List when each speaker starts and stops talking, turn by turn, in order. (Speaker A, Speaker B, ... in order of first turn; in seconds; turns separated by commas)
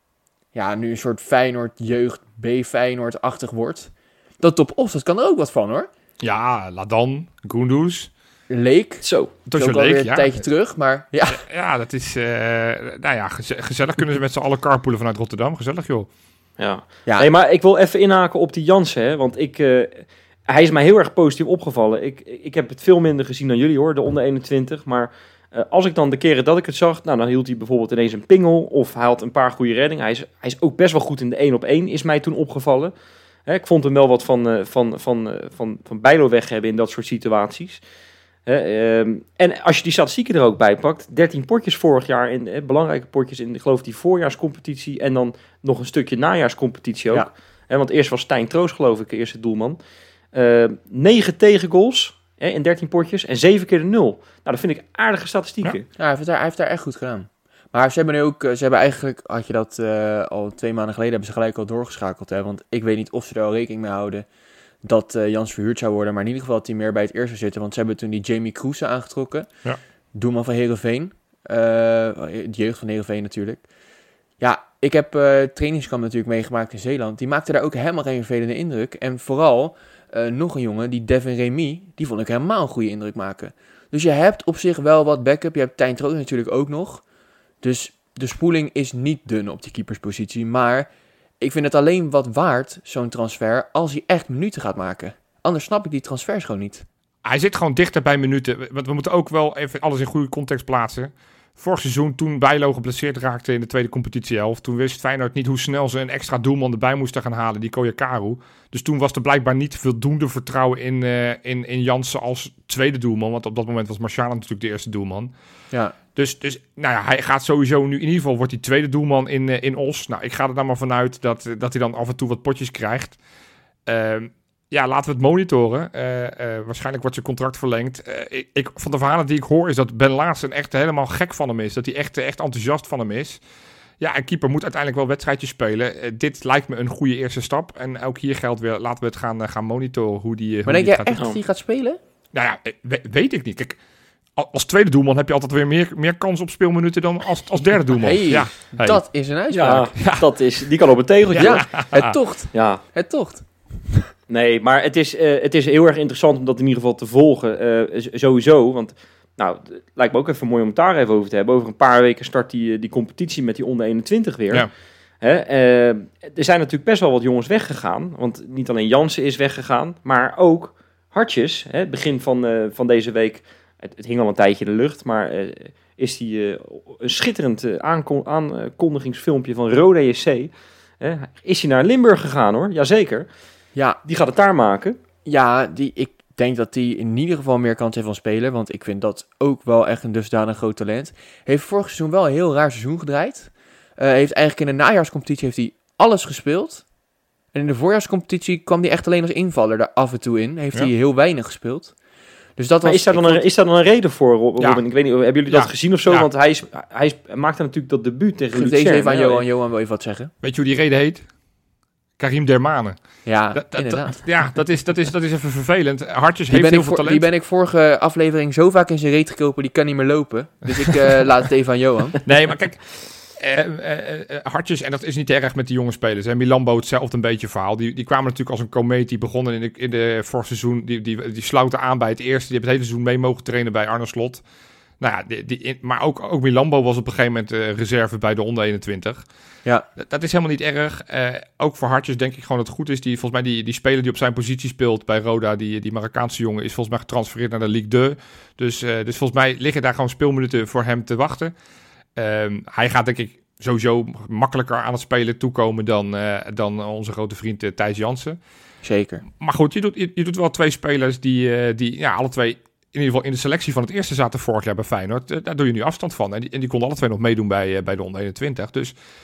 Speaker A: 0.5-5.9, Speaker B: 6.2-8.1, Speaker A: 8.5-9.0, Speaker C: 9.0-9.3, Speaker B: 9.4-10.4, Speaker A: 9.6-11.4, Speaker B: 11.3-16.1, Speaker C: 16.6-32.9, Speaker C: 33.5-37.8, Speaker C: 38.5-49.8, Speaker C: 50.3-55.9, Speaker A: 56.0-64.2, Speaker A: 64.8-69.5, Speaker A: 70.1-73.6, Speaker A: 74.4-87.0, Speaker A: 87.6-90.9, Speaker A: 91.4-96.8, Speaker B: 97.2-115.3, Speaker B: 116.2-123.2, Speaker B: 123.9-133.4, Speaker B: 134.0-141.2, Speaker A: 140.7-142.0, Speaker B: 142.3-143.8, Speaker B: 144.3-149.0, Speaker A: 148.0-149.9, Speaker C: 149.5-151.7, Speaker B: 149.9-150.3, Speaker B: 151.3-152.1, Speaker A: 151.4-154.1, Speaker C: 152.5-152.8, Speaker C: 154.3-164.7, Speaker C: 165.2-183.3, Speaker C: 184.0-185.0, Speaker A: 185.2-196.8, Speaker A: 197.5-201.9, Speaker A: 202.6-203.4, Speaker C: 202.8-209.4, Speaker B: 205.5-206.3, Speaker A: 208.5-210.3, Speaker B: 210.4-211.2, Speaker B: 212.2-213.0, Speaker A: 213.2-214.2, Speaker B: 213.5-217.2, Speaker A: 216.5-222.2, Speaker B: 222.2-234.4, Speaker B: 235.0-239.2, Speaker B: 240.0-251.5, Speaker B: 252.2-258.4, Speaker A: 258.8-259.2, Speaker B: 259.4-268.9